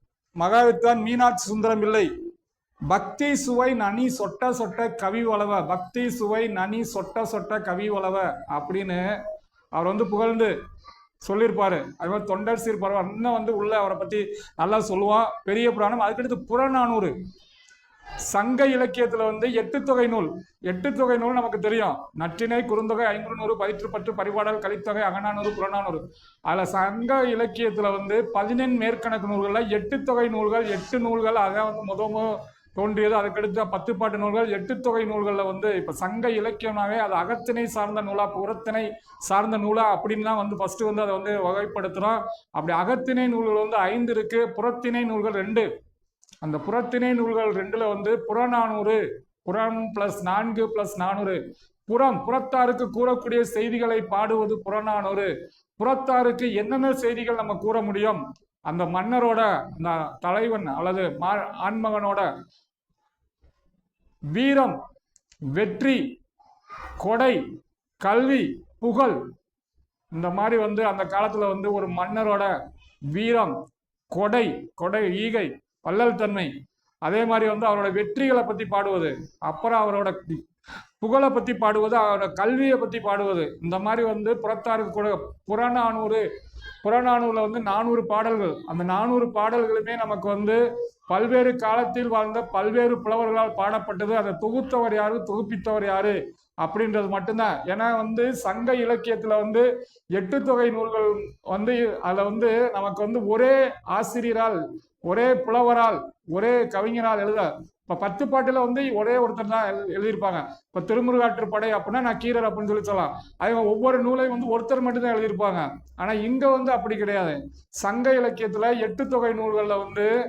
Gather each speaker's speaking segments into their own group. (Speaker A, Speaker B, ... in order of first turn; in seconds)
Speaker A: 0.4-2.1, 2.9-9.1, 9.7-10.5, 11.2-17.1, 18.3-45.7, 46.4-62.3, 64.3-64.8, 65.5-66.0, 67.0-67.4, 68.0-69.2, 70.1-72.5, 73.1-73.6, 74.1-76.5, 77.0-80.4, 81.0-86.2, 86.8-120.1